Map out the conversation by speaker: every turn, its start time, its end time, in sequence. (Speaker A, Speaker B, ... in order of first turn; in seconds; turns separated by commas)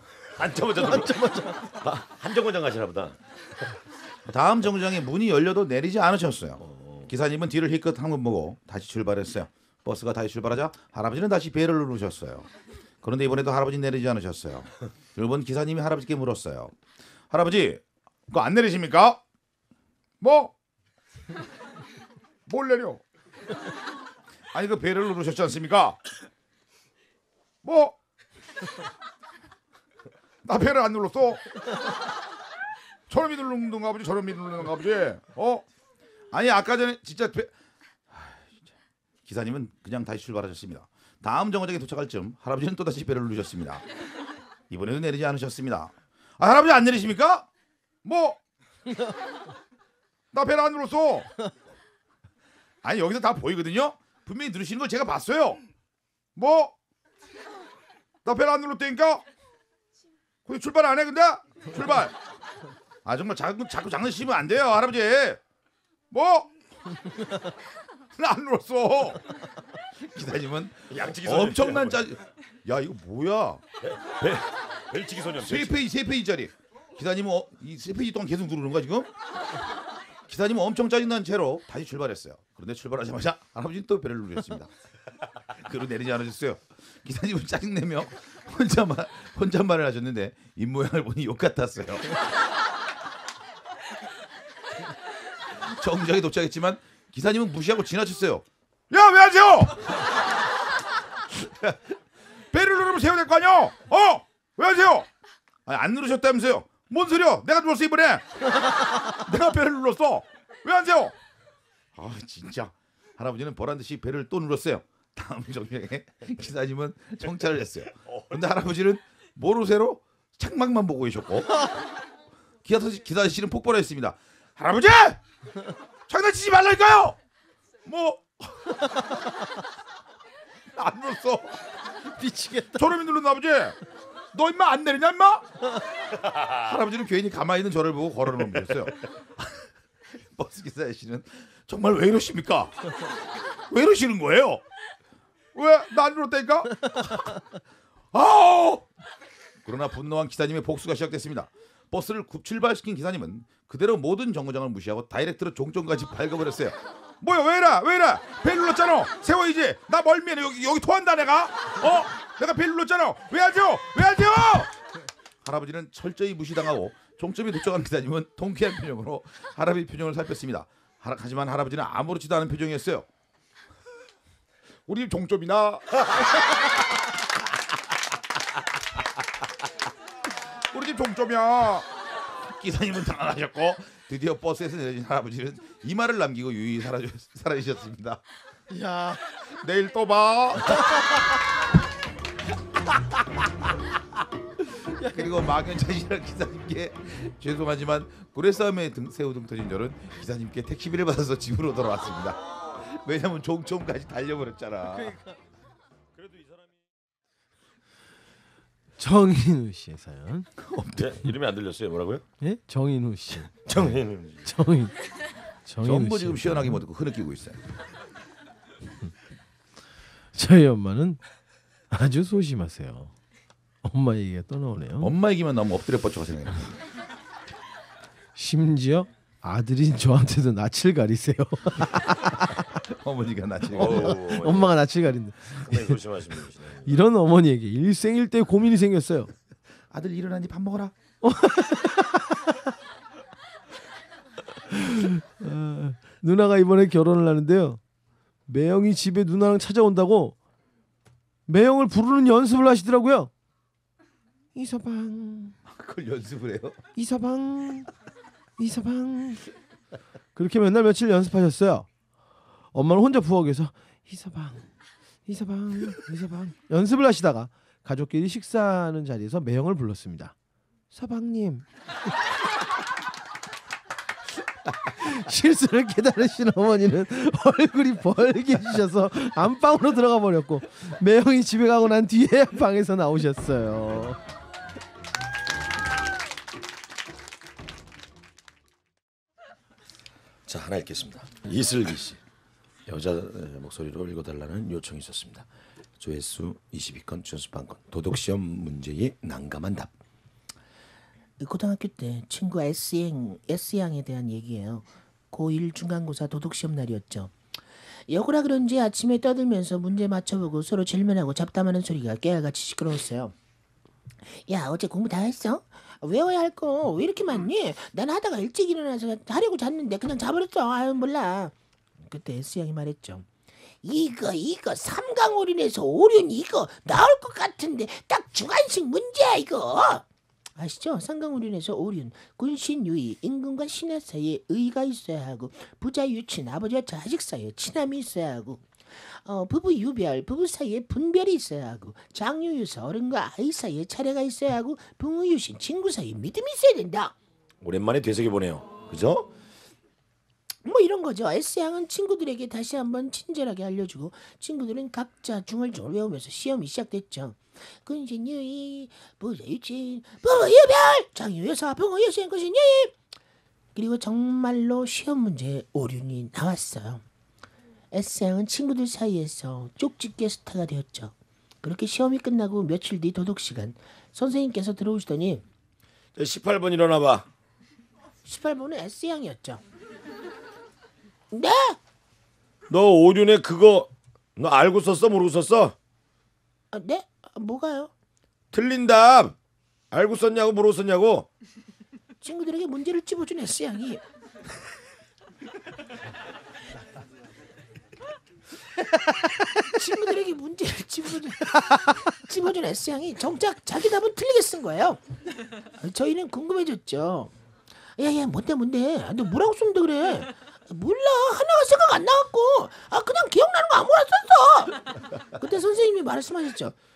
Speaker A: 0.4-3.2, Speaker B: 0.8-1.6, Speaker C: 4.2-12.5, Speaker A: 6.6-7.1, Speaker C: 13.0-16.7, Speaker C: 17.3-19.2, Speaker C: 20.2-20.5, Speaker C: 22.5-23.0, Speaker C: 24.5-26.0, Speaker C: 27.6-27.9, Speaker C: 30.4-31.4, Speaker C: 33.1-35.6, Speaker C: 36.3-37.5, Speaker C: 38.1-38.6, Speaker C: 39.2-43.9, Speaker C: 44.7-47.5, Speaker C: 48.0-48.4, Speaker C: 50.3-51.3, Speaker C: 52.8-55.6, Speaker C: 56.4-56.7, Speaker C: 58.2-59.2, Speaker C: 60.5-62.2, Speaker C: 63.0-65.4, Speaker C: 66.1-66.5, Speaker C: 68.2-69.2, Speaker C: 70.0-73.6, Speaker A: 70.9-72.0, Speaker A: 73.8-75.8, Speaker C: 75.4-79.1, Speaker C: 80.3-84.7, Speaker C: 85.5-92.2, Speaker C: 95.6-99.9, Speaker C: 101.3-101.8, Speaker C: 102.5-105.1, Speaker C: 105.7-111.2, Speaker C: 112.0-121.8, Speaker C: 122.6-125.2, Speaker C: 126.1-127.2, Speaker C: 127.8-129.1, Speaker C: 130.8-131.7, Speaker B: 132.2-132.9, Speaker C: 132.8-133.8, Speaker C: 134.3-135.4, Speaker C: 136.5-139.6, Speaker C: 140.2-142.7, Speaker C: 143.7-144.6, Speaker C: 145.6-147.3, Speaker C: 148.1-148.9, Speaker C: 149.6-164.7, Speaker C: 165.4-173.1, Speaker C: 174.9-176.0, Speaker C: 180.7-181.9, Speaker C: 182.4-188.2, Speaker B: 188.7-189.4, Speaker C: 189.6-190.8, Speaker C: 195.0-205.2, Speaker B: 204.9-205.3, Speaker A: 206.2-206.8, Speaker B: 209.0-210.5, Speaker C: 210.7-211.0, Speaker A: 210.8-212.2, Speaker B: 212.4-213.6, Speaker A: 213.7-214.5, Speaker B: 214.4-214.9, Speaker B: 215.7-216.8, Speaker C: 215.8-217.6, Speaker B: 220.3-221.2, Speaker B: 221.9-223.1, Speaker B: 223.8-225.1, Speaker C: 225.0-226.7, Speaker B: 228.4-232.6, Speaker C: 232.9-234.2, Speaker A: 233.7-234.7, Speaker B: 233.8-236.0, Speaker A: 235.6-237.0, Speaker B: 236.9-239.3, Speaker C: 239.9-240.9, Speaker B: 241.2-242.4, Speaker B: 244.7-247.8, Speaker B: 248.5-250.3, Speaker B: 251.5-253.3, Speaker B: 254.5-255.6, Speaker C: 255.7-256.8, Speaker B: 257.0-257.9, Speaker B: 258.6-259.5, Speaker B: 260.4-261.9, Speaker B: 262.7-264.7, Speaker B: 265.3-270.3, Speaker B: 270.9-271.7, Speaker B: 274.9-284.2, Speaker A: 290.5-292.2, Speaker A: 292.9-295.5, Speaker A: 296.0-299.9, Speaker D: 301.4-307.3, Speaker D: 308.1-313.3, Speaker D: 314.3-323.3, Speaker D: 323.8-330.1, Speaker D: 330.6-347.1, Speaker A: 347.6-349.2, Speaker D: 350.6-362.9, Speaker D: 363.8-367.0, Speaker D: 367.9-375.4, Speaker A: 376.2-377.3, Speaker D: 378.2-379.6, Speaker D: 381.3-381.8, Speaker A: 382.7-385.8, Speaker D: 386.7-387.9, Speaker A: 388.5-389.4, Speaker A: 389.9-391.3, Speaker D: 392.2-394.0, Speaker D: 399.7-405.0, Speaker D: 405.8-407.3, Speaker D: 408.0-416.7